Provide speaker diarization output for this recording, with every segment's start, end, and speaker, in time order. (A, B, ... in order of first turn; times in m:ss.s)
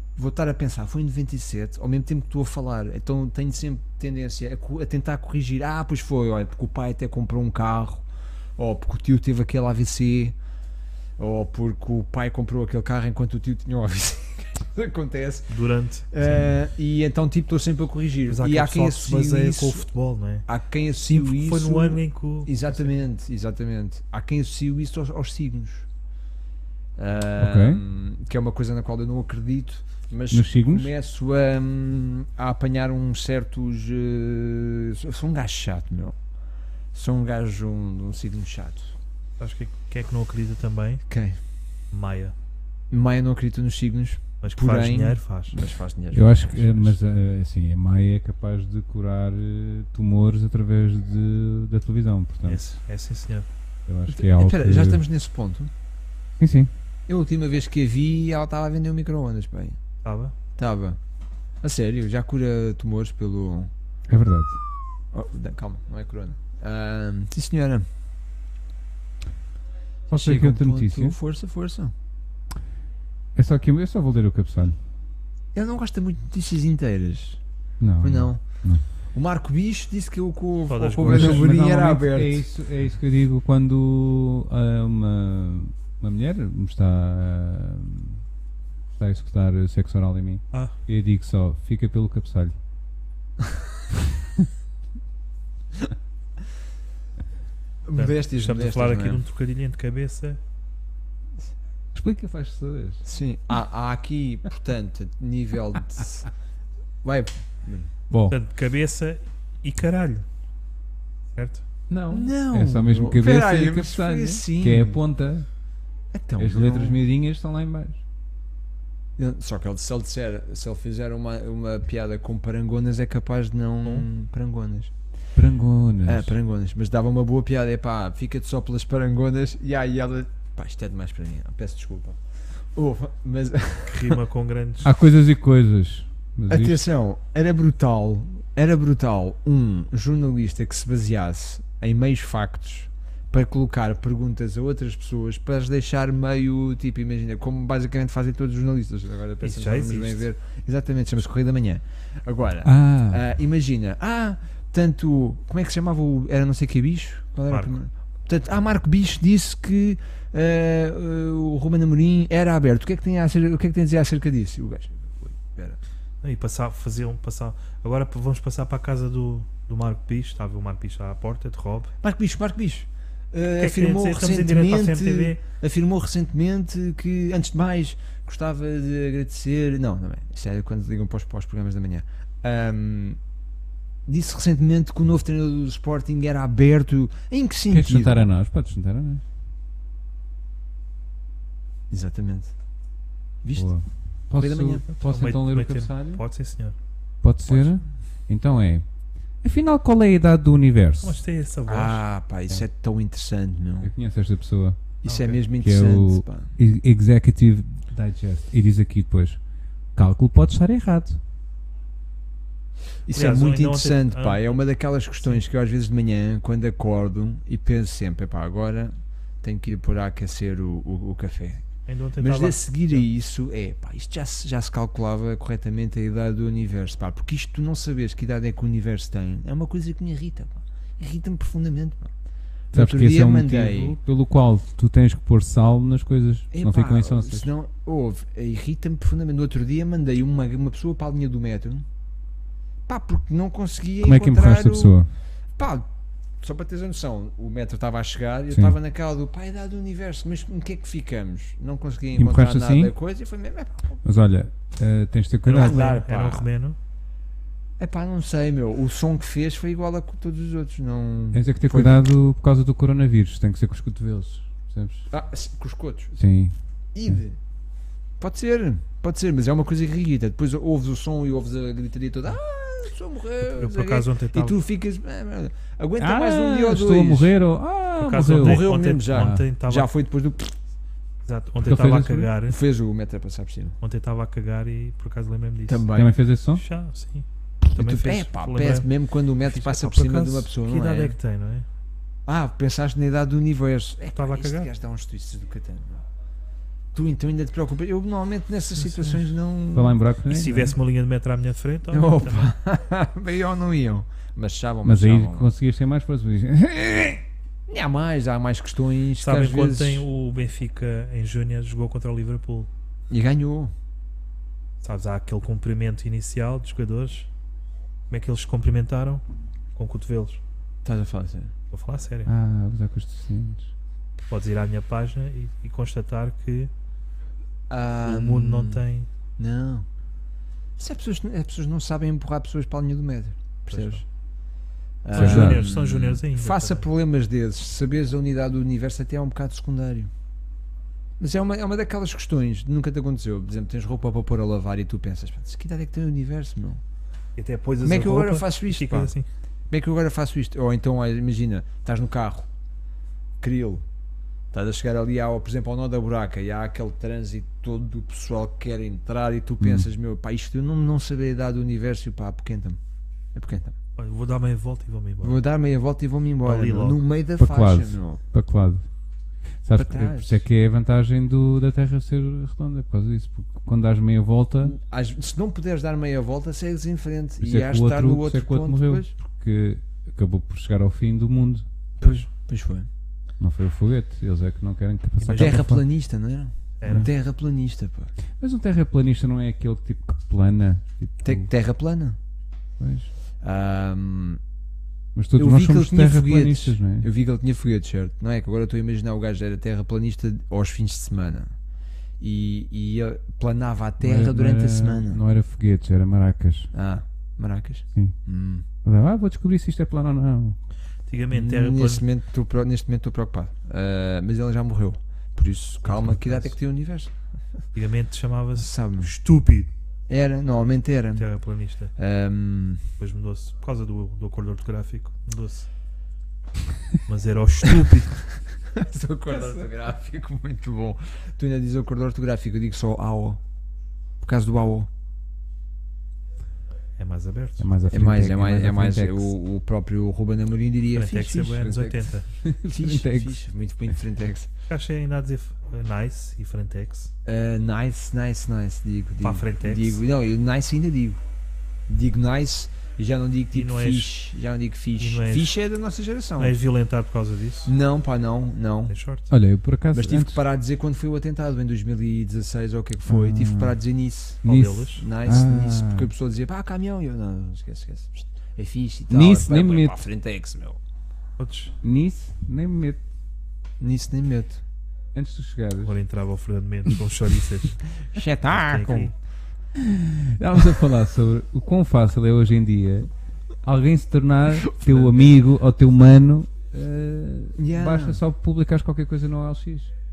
0:00.2-0:08.1 A
0:08.6-0:10.4 A
0:11.2-0:15.6 A
0:15.5-0:16.5 B
0:16.1-0:19.9 A
0:18.3-0:20.5 B
0:20.5-0:25.9 A
0:21.1-0:22.7 B
0:27.0-0:36.2 A
0:27.4-0:27.8 C
0:30.3-0:30.9 C
0:36.9-0:39.0 A
0:39.4-0:41.0 B
0:41.1-0:41.4 A
0:41.9-0:42.4 B
0:42.9-0:47.0 A
0:44.4-0:45.6 B
0:46.1-0:52.7 C
0:52.5-0:53.5 B
0:53.9-0:55.0 C
0:54.1-0:55.7 A
0:56.4-0:56.7 C
0:57.1-0:59.8 A
1:00.0-1:00.4 B
1:00.6-1:01.0 A
1:01.6-1:03.7 A
1:04.1-1:04.6 C
1:05.1-1:07.9 A
1:10.1-1:11.2 C
1:10.1-1:11.9 A
1:13.4-1:14.8 C
1:15.6-1:17.4 A
1:17.8-1:18.8 C
1:18.0-1:18.4 A
1:19.1-1:22.5 A
1:20.7-1:21.5 B
1:21.0-1:28.2 C
1:29.0-1:32.6 C
1:37.9-1:39.2 A
1:38.0-1:40.4 B
1:42.0-1:43.0 C
1:43.0-1:46.3 A
1:47.0-1:47.9 A
1:48.1-1:48.4 C
1:48.3-1:50.2 B
1:51.4-1:51.6 B
1:51.9-1:55.5 C
1:52.1-1:55.0 A
1:56.1-1:57.0 A
1:56.4-1:58.0 C
1:59.2-2:04.9 A
2:05.4-2:06.3 C
2:06.1-2:12.2 A
2:12.7-2:14.2 A
2:13.9-2:14.9 B
2:14.8-2:16.8 C
2:16.5-2:45.8 A
2:29.4-2:30.2 B
2:32.6-2:33.2 C
2:37.5-2:37.8 B
2:46.2-2:51.9 B
2:52.0-3:03.2 A
2:53.6-2:55.4 B
3:04.1-3:08.3 A
3:07.7-3:09.2 C
3:11.9-3:12.5 A
3:13.4-3:13.7 A
3:13.6-3:16.2 C
3:14.4-3:14.9 A
3:15.0-3:16.8 B
3:17.2-3:18.9 C
3:17.5-3:17.8 A
3:19.4-3:21.2 C
3:21.0-3:22.0 B
3:21.7-3:23.9 A
3:23.8-3:24.8 C
3:25.0-3:26.5 A
3:25.0-3:25.4 B
3:25.5-3:29.4 C
3:30.0-3:31.2 C
3:33.1-3:41.7 A
3:33.1-3:34.6 B
3:41.9-3:43.0 B
3:42.2-3:52.1 A
3:52.7-3:54.0 A
3:52.7-3:57.5 C
3:56.5-4:01.9 A
4:02.9-4:05.0 A
4:04.0-4:05.1 C
4:05.6-4:05.9 A
4:06.4-4:14.0 A
4:08.5-4:08.8 C
4:12.2-4:12.9 C
4:14.0-4:15.8 C
4:15.5-4:16.8 B
4:15.6-4:16.5 A
4:17.8-4:22.0 A
4:21.3-4:25.1 C
4:25.1-4:26.2 A
4:26.2-4:26.6 C
4:26.9-4:27.4 A
4:28.2-4:37.4 A
4:33.4-4:34.6 B
4:36.0-4:39.4 C
4:38.0-4:39.9 B
4:38.4-4:40.6 A
4:41.2-4:42.6 B
4:41.6-4:42.3 C
4:42.5-4:43.8 A
4:43.8-4:45.9 B
4:45.7-4:46.2 A
4:46.0-4:46.6 C
4:46.6-4:48.9 B
4:47.6-4:51.2 A
4:49.4-4:51.7 B
4:52.3-4:56.0 A
4:54.2-4:54.7 B
4:56.9-5:00.0 A
4:58.8-4:59.2 B
4:59.7-5:00.8 C
5:00.3-5:02.5 B
5:01.9-5:05.5 A
5:04.8-5:07.2 C
5:07.7-5:10.1 A
5:09.2-5:12.7 B
5:13.1-5:13.7 A
5:14.8-5:17.3 B
5:18.1-5:19.2 B
5:19.8-5:20.4 B
5:20.8-5:21.5 A
5:21.7-5:22.3 B
5:22.2-5:23.7 C
5:24.3-5:26.7 B
5:27.7-5:28.8 A
5:28.0-5:29.1 B
5:29.4-5:29.9 A
5:30.8-5:34.0 A
5:33.7-5:34.0 B
5:35.0-5:40.1 A
5:35.1-5:36.9 B
5:35.1-5:35.6 C
5:41.2-5:46.8 A
5:47.4-5:49.3 B
5:47.8-5:49.1 A
5:49.7-5:52.5 A
5:53.4-5:53.8 A
5:54.5-6:02.8 A
5:59.6-5:59.9 C
6:03.3-6:03.8 A
6:04.0-6:05.4 B
6:05.2-6:08.2 A
6:06.4-6:07.0 B
6:07.4-6:08.9 C
6:09.6-6:14.8 C
6:09.8-6:10.4 A
6:14.6-6:19.1 A
6:17.4-6:21.7 C
6:22.0-6:22.2 B
6:22.0-6:22.9 A
6:23.4-6:25.8 C
6:25.2-6:25.6 B
6:25.3-6:28.1 A
6:26.8-6:27.1 B
6:28.4-6:31.5 C
6:31.2-6:32.2 A
6:32.8-6:33.1 C
6:33.4-6:34.4 A
6:35.2-6:37.1 C
6:35.4-6:41.5 A
6:42.2-6:45.2 A
6:44.0-6:46.7 C
6:46.7-6:48.7 A
6:48.8-6:50.6 C
6:51.1-6:52.0 B
6:51.3-6:57.2 A
6:55.8-6:56.5 B
6:57.7-6:59.7 B
6:58.6-6:59.1 A
7:00.1-7:01.3 A
7:01.2-7:01.9 B
7:02.0-7:02.8 A
7:03.0-7:05.7 B
7:07.1-7:08.2 B
7:08.7-7:13.4 A
7:14.2-7:14.9 A
7:17.0-7:17.7 B
7:17.6-7:19.3 C
7:17.9-7:22.1 A
7:20.9-7:22.3 B
7:22.4-7:23.4 C
7:22.6-7:24.5 A
7:24.7-7:27.1 B
7:27.2-7:31.2 A
7:29.2-7:30.0 B
7:31.9-7:36.6 A
7:33.5-7:34.1 B
7:35.0-7:35.5 B
7:36.4-7:37.7 B
7:37.6-7:39.0 A
7:38.9-7:39.3 B
7:39.3-7:40.4 C
7:39.9-7:50.8 A
7:43.1-7:43.8 C
7:44.4-7:45.1 B
7:44.4-7:46.1 C
7:49.1-7:50.0 C
7:51.4-7:51.7 B
7:51.8-7:53.0 C
7:53.8-7:54.6 A
7:55.1-7:56.0 C
7:55.8-7:57.9 B
7:58.1-7:59.1 A
7:58.5-7:59.1 B
7:59.8-8:03.1 C
8:03.6-8:09.9 C
8:04.7-8:05.3 A
8:07.6-8:08.2 A